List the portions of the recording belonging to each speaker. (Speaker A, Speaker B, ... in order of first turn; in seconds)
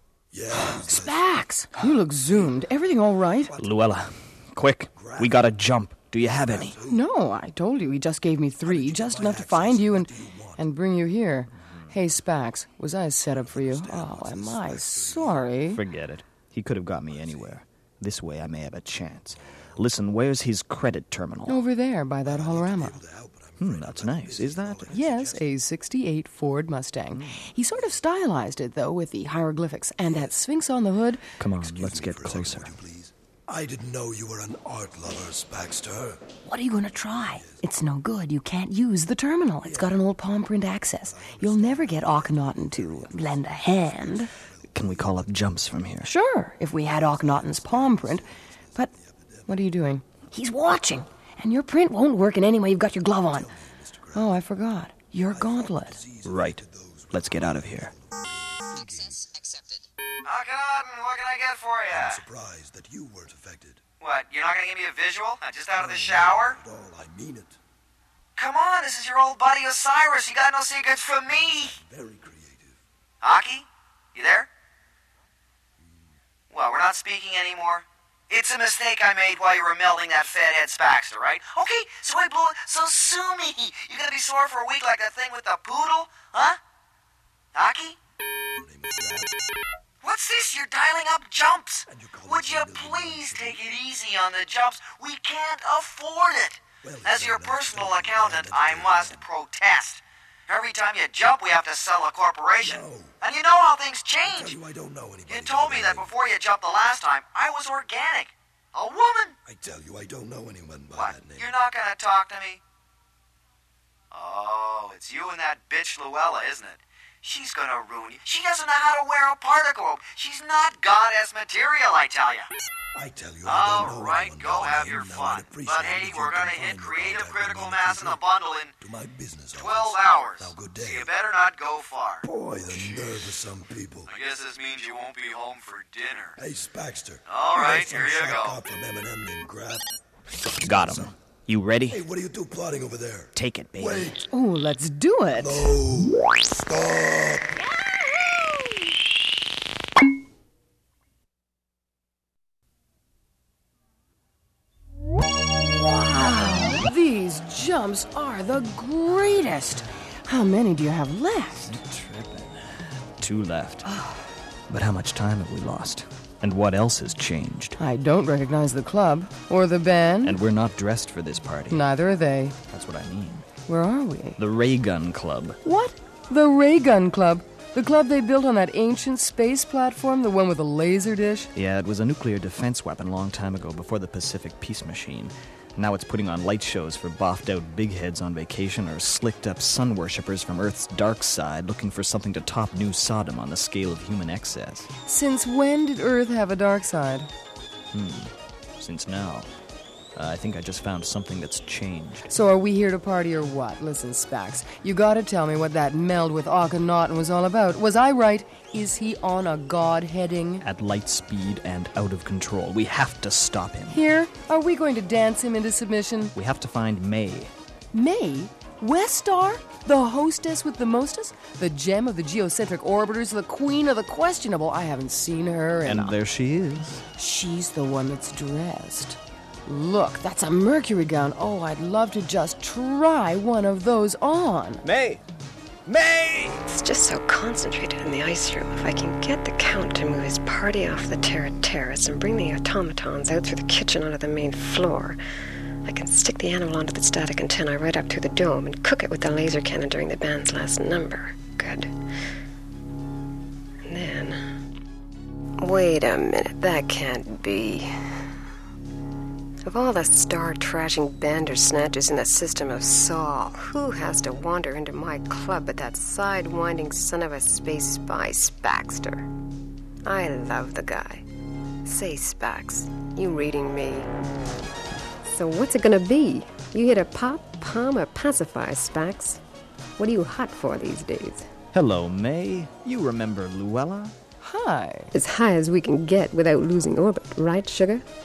Speaker A: 0.3-1.3, 2.2-2.7, 3.4-3.8, 5.0-5.5, 6.3-7.0, 8.6-10.7, 13.3-15.6, 17.0-17.6, 22.2-25.5, 30.0-30.3, 31.5-36.2, 36.9-37.6, 39.6-40.0, 41.0-45.3, 46.8-49.5, 53.2-54.5, 55.3-59.3, 61.9-63.8, 65.8-67.6, 71.4-72.8, 88.5-89.4, 91.9-93.6, 96.8-99.2, 102.6-103.2, 104.2-106.1, 109.5-111.5, 123.0-128.2, 128.8-131.1, 132.2-134.1, 136.4-139.9, 140.6-141.1, 141.9-144.2, 145.3-147.5
Speaker B: 0.5-3.5, 6.9-15.8, 21.5-23.0, 24.9-31.2, 36.5-44.3, 46.0-48.9, 49.5-53.5, 54.1-56.0, 144.3-145.8, 155.7-161.8, 167.8-170.4, 171.7-172.6, 173.7-174.4, 175.6-181.5, 195.1-197.3, 202.3-210.6, 213.9-216.3, 217.9-226.2, 227.2-234.8, 284.4-285.1
Speaker C: 3.6-6.8, 11.7-11.9, 15.7-21.6, 23.6-25.0, 27.1-27.4, 31.4-32.7, 44.7-46.1, 56.2-57.9, 140.6-142.0, 143.3-144.2, 161.6-163.9, 164.7-167.8, 170.2-171.8, 172.7-173.5, 174.4-175.6, 181.5-194.9, 197.9-199.5, 200.2-202.3, 210.6-214.0, 216.3-217.5, 225.8-227.0, 234.8-235.2, 235.9-236.6, 281.7-284.2
Speaker D: 60.2-62.2, 64.0-66.6, 68.4-71.8, 73.2-74.5, 76.5-86.6, 87.5-88.0, 90.0-104.6, 105.3-109.3, 111.0-112.6, 114.1-122.5, 123.5-128.7, 129.5-132.3, 134.1-136.4, 137.3-138.6
Speaker E: 236.7-245.2, 245.9-251.9, 253.9-254.4, 255.6-258.2, 259.6-269.3, 270.1-271.2, 271.9-274.1, 275.2-279.4, 280.0-281.5, 285.1-288.1